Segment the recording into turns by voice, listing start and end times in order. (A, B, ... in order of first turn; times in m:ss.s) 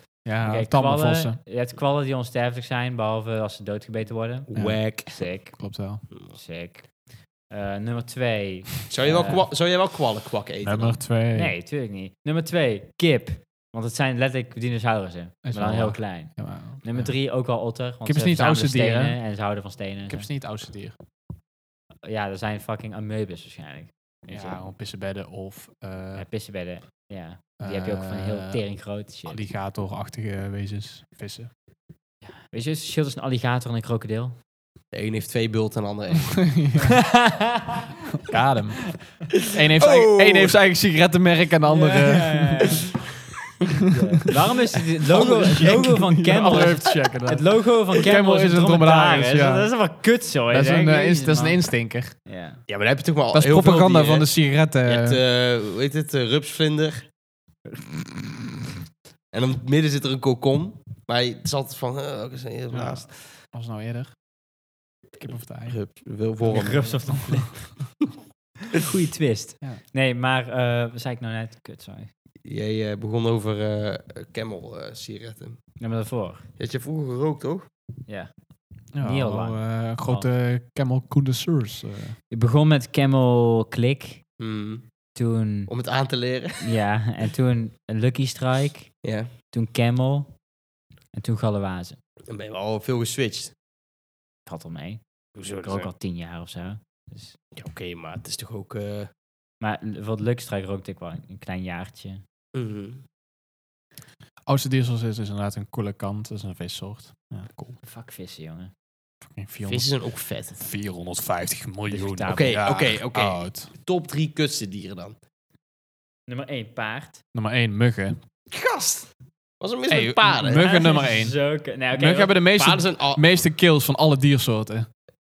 0:00.2-0:01.4 A
0:00.4-0:06.9 B
0:04.5-0:05.2 C
0:05.6-0:06.0 A
0:07.5-0:09.5 B
0:08.9-0:11.0 C
0:10.6-0:11.5 A
0:11.4-0:20.3 B
0:15.4-0:17.1 A
0:18.0-0:19.2 A
0:20.1-0:21.0 A
0:22.0-0:24.6 B
0:24.3-0:26.2 A
0:26.2-0:29.4 B
0:27.6-0:28.6 A
0:29.3-0:31.5 A
0:32.4-0:34.4 B
0:34.9-0:36.5 C
0:36.3-0:37.0 A
0:36.9-0:37.9 B
0:38.2-0:38.8 A
0:39.5-0:42.8 A
0:39.8-0:40.6 C
0:41.7-0:43.0 B
0:43.9-0:51.6 B
0:44.7-0:46.0 C
0:45.2-0:49.7 A
0:50.5-0:52.2 A
0:52.3-0:52.6 B
0:52.7-0:54.3 C
0:53.3-0:55.2 A
0:54.8-0:57.1 C
0:59.3-1:03.2 C
1:02.7-1:04.1 A
1:05.2-1:05.8 A
1:05.7-1:07.4 C
1:06.5-1:07.7 B
1:07.1-1:07.4 A
1:08.7-1:12.1 B
1:12.4-1:15.6 C
1:15.8-1:16.4 B
1:16.6-1:17.7 C
1:18.9-1:22.2 A
1:19.0-1:20.3 B
1:22.3-1:24.2 B
1:24.4-1:24.8 C
1:25.2-1:25.7 B
1:25.7-1:26.8 C
1:26.6-1:29.0 B
1:29.0-1:29.3 C
1:29.5-1:30.3 B
1:31.1-1:32.0 B
1:32.3-1:33.5 C
1:34.5-1:35.0 B
1:35.4-1:35.9 C
1:35.6-1:37.4 B
1:37.5-1:39.1 C
1:39.6-1:42.2 B
1:42.6-1:43.0 C
1:44.5-1:47.8 A
1:47.8-1:48.7 B
1:49.3-1:49.9 A
1:49.7-1:50.6 C
1:50.6-1:53.7 A
1:51.9-1:52.6 B
1:52.3-1:55.2 C
1:56.3-1:57.2 B
1:57.3-1:58.2 A
1:58.5-2:00.7 C
1:59.9-2:01.4 A
2:00.5-2:02.4 B
2:01.9-2:04.9 A
2:02.5-2:03.2 C